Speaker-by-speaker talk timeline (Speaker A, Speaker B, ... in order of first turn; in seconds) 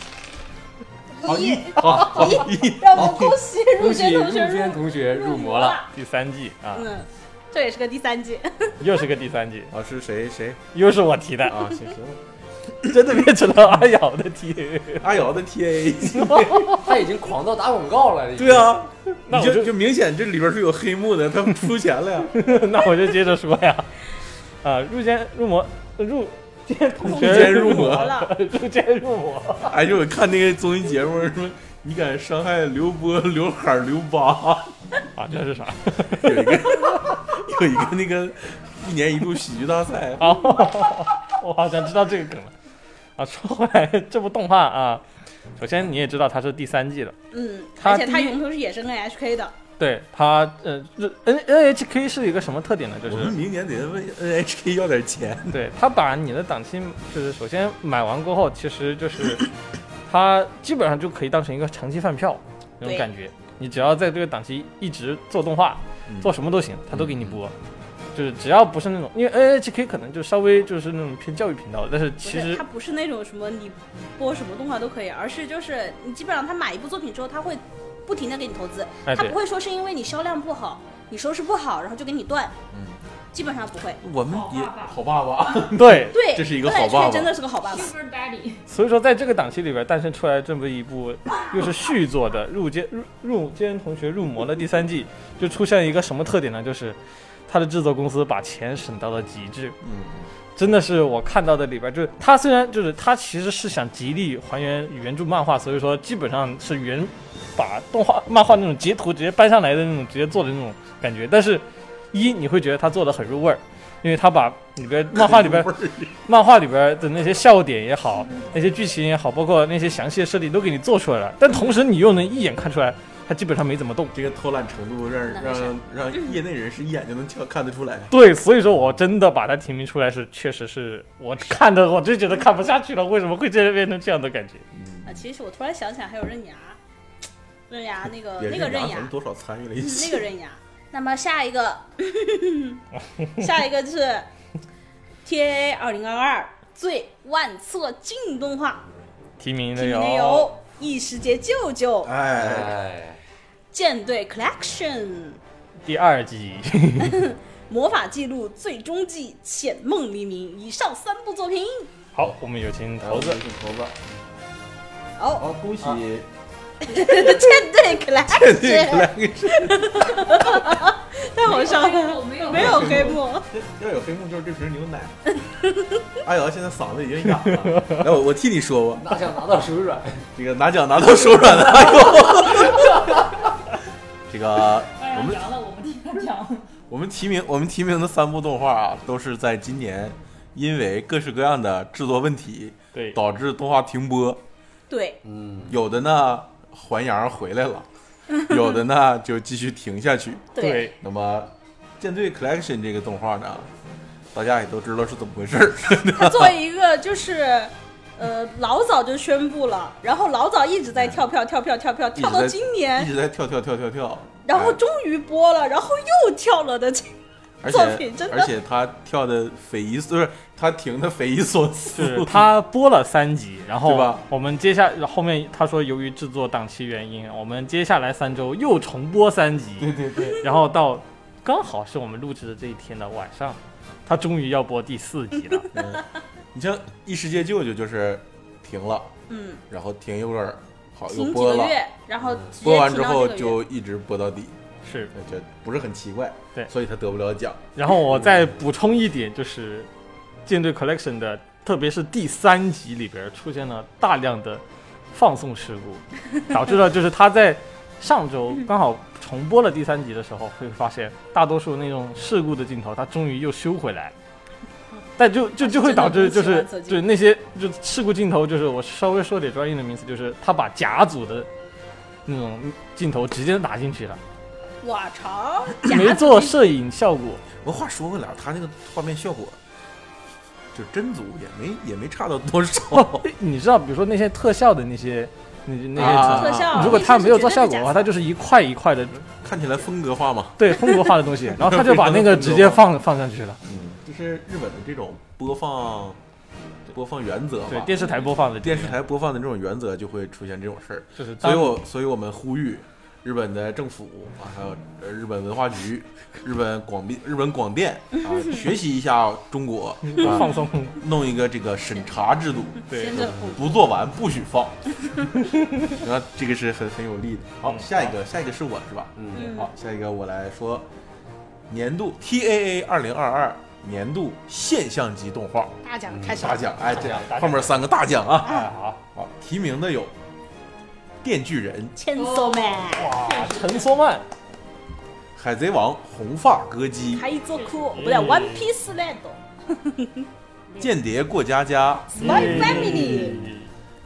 Speaker A: 1.2-5.9, 6.7-8.8, 27.0-28.3, 47.3-49.5, 62.8-63.1, 72.2-82.5, 83.3-84.0, 86.1-87.9, 125.3-125.7, 135.1-136.8, 137.7-139.1, 139.8-142.8, 143.4-144.3, 145.2-148.9, 149.8-152.1, 153.7-155.4, 157.0-161.9, 165.2-165.4, 166.8-173.5, 194.9-195.2, 200.6-200.9, 206.1-213.1, 214.4-217.1, 217.6-218.5, 239.3-239.6, 241.1-243.6, 265.6-267.0, 274.8-276.6, 286.0-288.1, 308.3-308.6, 312.8-313.8, 319.3-319.7, 325.8-326.7, 328.4-328.7, 331.9-333.1, 337.1-340.3, 342.2-343.4
Speaker B: 1.2-3.4, 9.7-10.6, 11.4-12.2, 15.0-16.8, 18.4-22.3, 27.0-28.1, 29.6-34.7, 36.0-40.6, 53.1-55.6, 66.1-66.3, 66.9-67.4, 82.7-83.0, 84.0-87.3, 99.8-100.3, 115.1-116.2, 124.1-128.1, 134.7-135.1, 138.4-140.2, 152.0-152.8, 163.0-164.0, 165.4-166.3, 168.3-170.5, 172.5-175.1, 176.2-179.1, 180.4-183.1, 184.3-185.4, 186.9-194.4, 195.7-197.9, 198.4-203.7, 204.3-206.5, 210.9-211.2, 212.1-214.8, 217.6-222.5, 223.8-224.2, 229.8-230.5, 235.7-239.1, 239.7-241.8, 242.6-244.6, 245.1-247.6, 277.6-279.6, 280.7-283.3, 285.9-287.1, 289.3-290.8, 291.5-292.8, 293.6-296.2, 296.9-297.9, 298.6-314.9, 315.9-320.9, 321.7-325.8, 326.3-330.1, 331.2-331.9, 335.3-337.2, 340.8-343.2
Speaker C: 3.8-5.9, 16.7-18.8, 152.4-153.2, 178.9-180.3, 181.8-183.1, 195.2-195.8, 319.2-319.5, 326.1-327.8, 342.8-343.4
Speaker D: 5.9-6.9, 8.8-9.7, 10.7-11.7, 12.8-15.1, 16.2-16.8, 19.3-19.7, 22.3-23.9, 24.6-29.8, 35.1-37.1, 40.2-42.5, 43.2-45.0, 45.6-47.1, 47.8-48.4, 49.8-53.4, 55.5-59.5, 60.1-67.5, 68.1-72.6, 79.0-79.4, 85.7-86.2, 88.7-99.8, 100.5-115.7, 116.3-124.1, 128.1-134.6, 149.4-150.5, 155.8-157.3, 162.1-163.4, 200.6-200.9, 221.9-235.8, 244.8-245.1, 247.7-249.9, 250.4-264.1, 265.2-271.5, 272.2-274.2, 275.8-277.4, 282.9-289.2, 290.6-293.6, 297.7-298.9, 301.2-301.8, 310.1-311.0, 312.9-313.2, 328.4-329.0, 332.9-334.2, 337.9-338.7, 342.1-343.7
Speaker E: 84.3-85.0, 87.6-88.7, 171.4-173.2, 184.9-186.7, 332.1-333.9, 337.5-338.0